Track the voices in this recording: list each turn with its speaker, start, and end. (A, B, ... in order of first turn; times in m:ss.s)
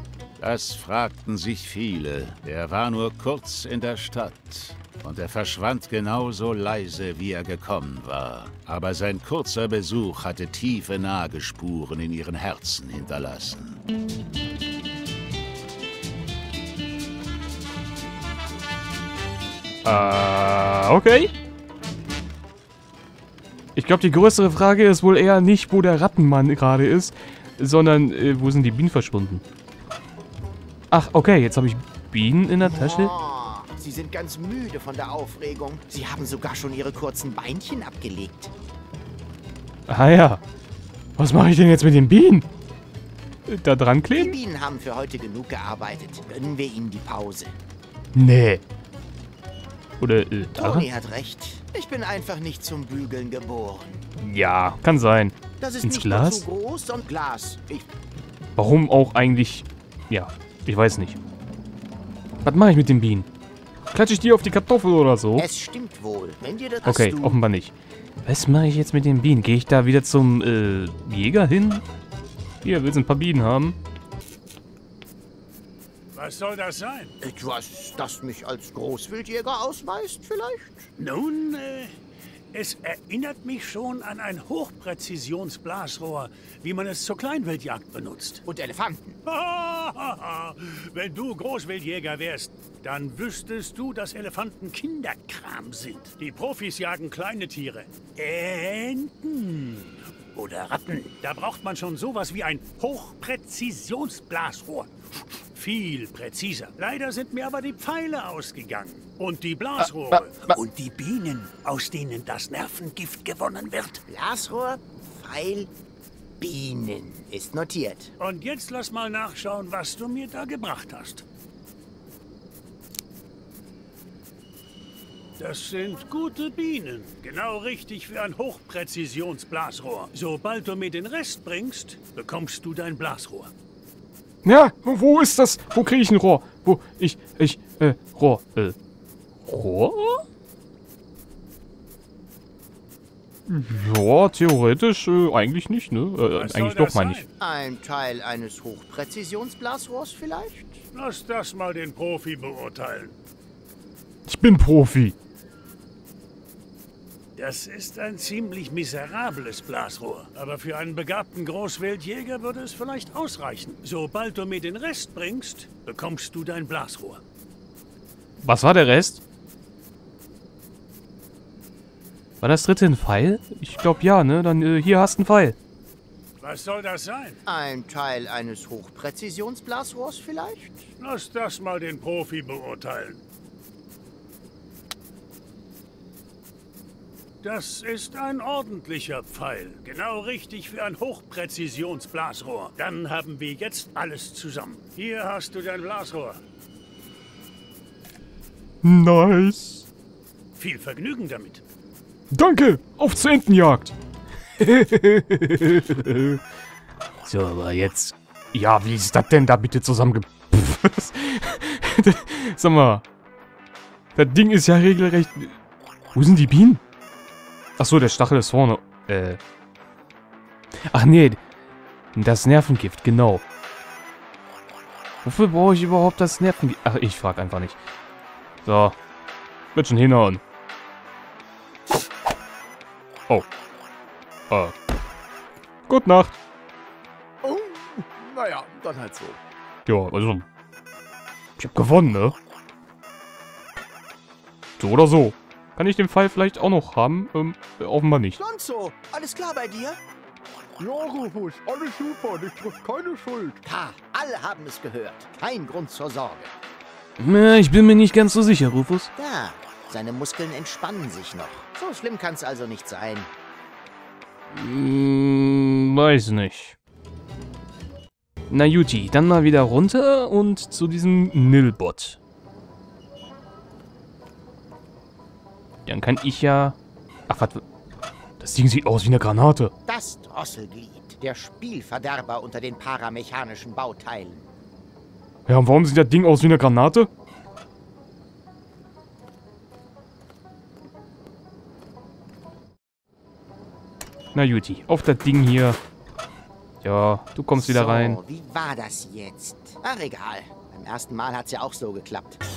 0:00.4-0:13.8 A
0:19.8-0:21.3 B
0:23.8-0:29.4 B
0:30.9-0:33.1 B
0:32.6-0:38.5 C
0:39.9-0:40.4 B
0:41.2-0:42.5 B
0:43.5-0:44.4 B
0:44.2-0:47.5 C
0:48.2-0:48.6 B
0:50.0-0:50.9 B
0:50.6-0:54.1 C
0:54.2-0:56.5 B
0:55.6-0:57.9 C
0:58.6-1:01.2 B
1:02.4-1:03.3 B
1:03.9-1:05.5 B
1:05.4-1:07.4 C
1:06.8-1:07.7 B
1:08.2-1:11.8 B
1:12.6-1:13.8 B
1:16.2-1:17.2 D
1:17.2-1:20.9 C
1:21.0-1:22.0 D
1:22.5-1:28.4 D
1:28.5-1:29.2 C
1:29.3-1:44.9 D
1:40.4-1:40.7 C
1:45.6-1:54.0 D
1:49.8-1:50.6 B
1:54.1-1:55.7 C
1:56.4-1:58.1 C
1:58.2-2:01.2 D
2:05.4-2:13.5 D
2:14.4-2:18.8 B
2:19.4-2:20.2 B
2:23.5-2:27.2 B
2:26.3-2:27.3 D
2:27.4-2:30.8 C
2:30.9-2:33.2 D
2:34.3-2:35.2 B
2:37.4-2:47.2 D
2:48.4-2:49.2 B
2:52.4-2:55.6 B
2:56.4-2:57.4 D
2:57.5-3:00.8 C
3:01.0-3:03.2 D
3:07.4-3:16.4 D
3:18.8-3:19.8 B
3:20.6-3:21.6 D
3:22.3-3:23.9 B
3:24.6-3:26.4 B
3:27.2-3:33.0 B
3:34.2-3:35.6 B
3:36.2-3:36.8 B
3:37.8-3:39.4 B
3:40.9-3:41.4 B
3:42.2-3:43.4 B
3:45.2-3:47.8 B
3:48.6-3:49.0 B
3:49.8-3:50.4 B
3:55.9-3:56.4 B
3:58.6-3:59.4 C
3:59.9-4:00.4 B
4:01.6-4:02.4 B
4:04.8-4:08.4 B
4:08.4-4:10.0 C
4:11.0-4:13.5 E
4:13.6-4:16.6 C
4:17.2-4:19.1 B
4:19.2-4:23.3 C
4:24.5-4:26.8 B
4:28.5-4:32.2 B
4:35.9-4:36.8 B
4:37.3-4:37.6 B
4:38.4-4:39.7 B
4:39.9-4:44.5 C
4:45.5-4:47.1 B
4:54.3-4:55.8 B
4:56.8-4:58.2 B
4:57.6-5:02.4 C